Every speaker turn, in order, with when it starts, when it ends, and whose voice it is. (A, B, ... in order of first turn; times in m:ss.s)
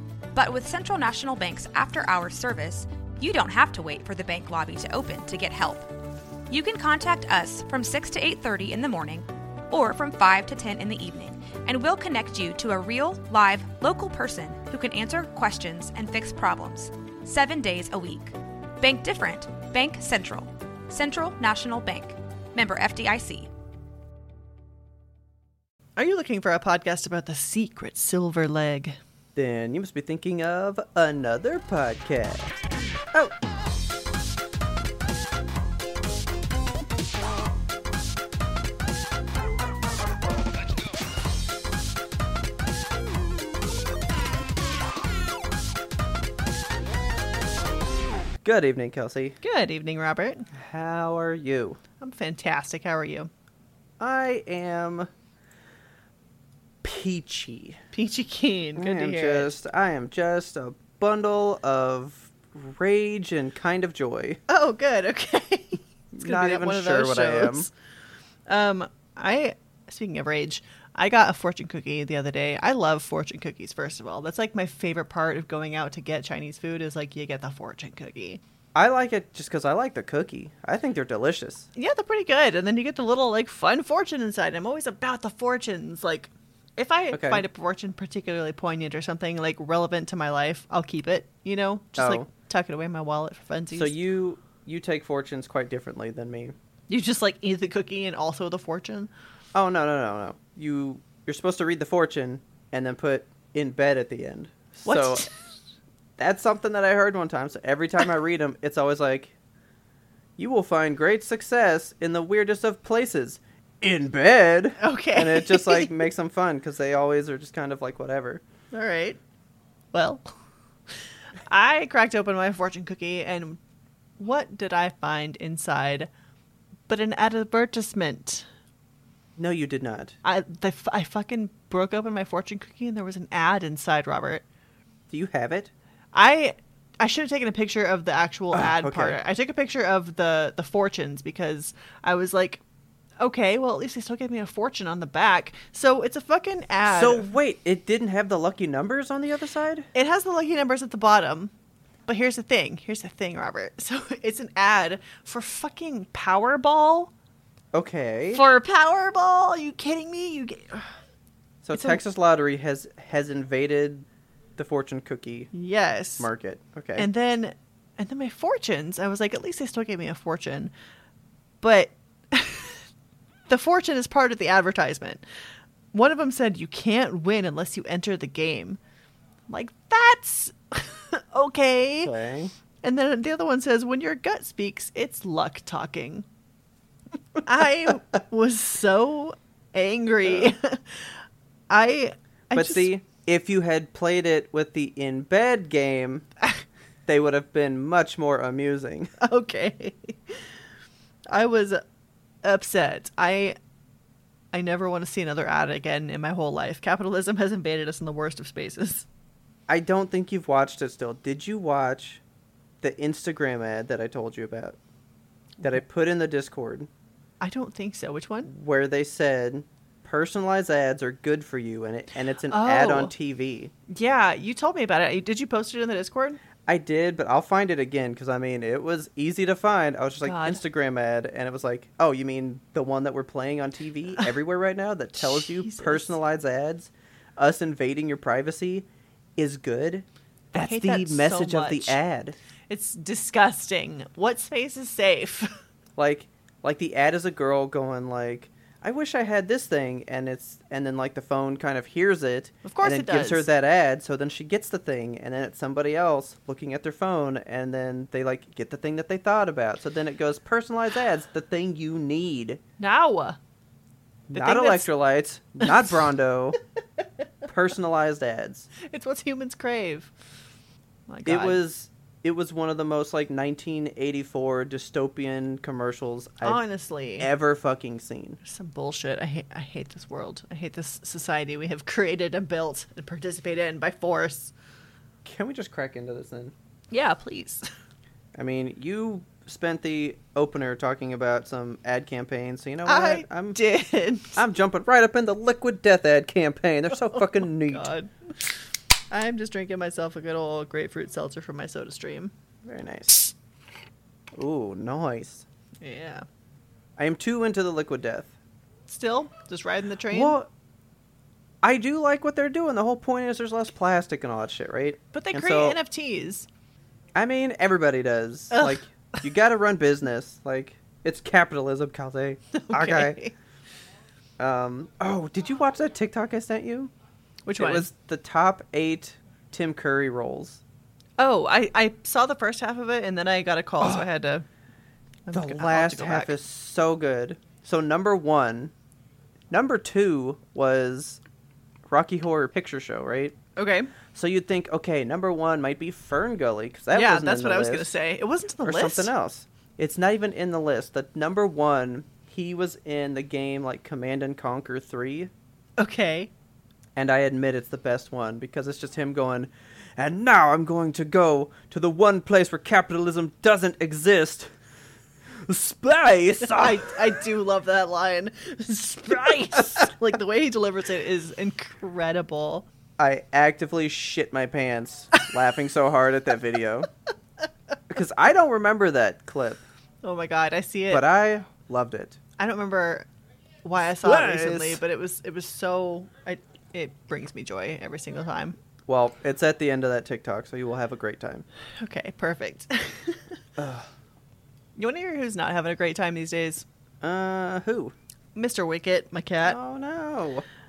0:00.4-0:05.9 A
0:06.5-0:23.5 A
0:26.0-0:29.0 B
0:29.4-0:32.6 C
0:48.4-0:49.4 C
0:49.4-0:50.5 B
0:50.5-0:51.8 C
0:52.0-0:53.3 B
0:54.0-0:55.1 C
0:56.8-0:57.8 C
0:57.9-0:59.6 B
0:58.8-1:04.4 C
1:04.5-1:07.7 B
1:06.1-1:07.7 C
1:08.5-1:18.4 B
1:18.8-1:21.7 C
1:21.8-1:34.0 B
1:27.1-1:27.4 C
1:32.0-1:32.3 C
1:33.7-1:36.6 C
1:36.9-1:39.1 B
1:39.5-1:45.3 C
1:44.9-1:45.3 B
1:46.2-1:49.3 C
1:50.4-1:58.4 C
1:54.8-1:55.9 B
1:58.7-1:59.2 B
1:59.9-2:00.4 B
2:01.5-2:03.6 B
2:04.2-2:06.1 B
2:06.9-2:08.5 B
2:09.4-2:10.2 C
2:10.2-2:14.4 B
2:15.1-2:15.7 C
2:16.1-2:22.6 B
2:18.5-2:19.2 C
2:23.2-2:27.3 B
2:26.9-2:29.9 C
2:29.9-2:31.5 B
2:32.1-2:37.1 B
2:37.7-2:38.4 C
2:38.3-2:40.9 B
2:41.6-2:44.1 C
2:41.7-2:42.0 B
2:44.6-2:45.5 C
2:45.5-2:46.3 B
2:46.2-2:47.1 C
2:47.0-2:50.7 B
2:51.6-2:52.8 B
2:53.5-2:55.2 B
2:55.9-2:58.8 B
2:59.5-3:02.1 B
3:02.0-3:02.5 C
3:02.8-3:06.3 B
3:07.4-3:11.2 B
3:10.2-3:10.5 C
3:11.7-3:12.9 B
3:12.5-3:16.3 C
3:17.1-3:19.2 C
3:19.2-3:20.4 B
3:21.3-3:21.8 B
3:22.4-3:23.6 B
3:24.5-3:29.1 B
3:29.7-3:32.2 C
3:32.8-3:34.8 C
3:35.6-3:36.9 C
3:37.4-3:38.5 B
3:38.5-3:43.7 C
3:42.4-3:43.1 B
3:43.9-3:46.4 B
3:46.7-4:02.4 C
3:50.2-3:50.6 B
3:55.2-3:56.2 B
4:00.5-4:02.0 B
4:02.7-4:05.6 B
4:06.0-4:22.6 C
4:12.6-4:13.5 B
4:22.8-4:23.4 B
4:24.3-4:26.6 C
4:24.3-4:24.9 B
4:27.5-4:28.7 C
4:28.8-4:30.1 B
4:31.1-4:31.6 B
4:31.3-4:36.6 C
4:36.4-4:37.3 B
4:37.2-4:38.4 C
4:38.4-4:44.5 B
4:45.2-4:46.5 C
4:46.9-4:47.6 B
4:48.4-4:53.6 C
4:52.8-4:54.4 B
4:54.4-4:57.9 C
4:57.1-4:58.6 B
4:59.1-5:02.3 B
5:02.6-5:03.3 C
5:04.3-5:05.4 C
5:05.8-5:06.3 B
5:07.0-5:08.3 C
5:08.9-5:10.4 B
5:10.1-5:10.5 C
5:11.6-5:15.8 C
5:15.1-5:16.5 B
5:17.2-5:23.2 C
5:18.5-5:18.8 B
5:22.5-5:23.3 B
5:24.4-5:26.9 C
5:27.5-5:27.9 B
5:27.6-5:30.6 C
5:31.2-5:34.4 B
5:33.8-5:34.0 C
5:35.3-5:36.4 B
5:35.3-5:38.7 C
5:39.5-5:41.2 C
5:41.9-5:43.4 C
5:43.6-5:43.9 B
5:44.1-5:47.9 C
5:46.9-5:49.1 B
5:48.6-5:55.3 C
5:55.8-5:56.3 B
5:57.0-6:04.5 C
6:05.4-6:07.2 C
6:06.5-6:12.7 B
6:09.1-6:09.9 C
6:13.0-6:16.9 C
6:17.9-6:19.6 C
6:20.0-6:21.0 B
6:20.9-6:22.2 C
6:22.4-6:23.1 B
6:23.6-6:28.6 B
6:24.0-6:24.8 C
6:28.9-6:31.4 C
6:31.8-6:33.4 B
6:33.6-6:33.9 C
6:34.8-6:36.7 B
6:37.0-6:37.9 C
6:38.4-6:39.6 B
6:39.4-6:40.5 C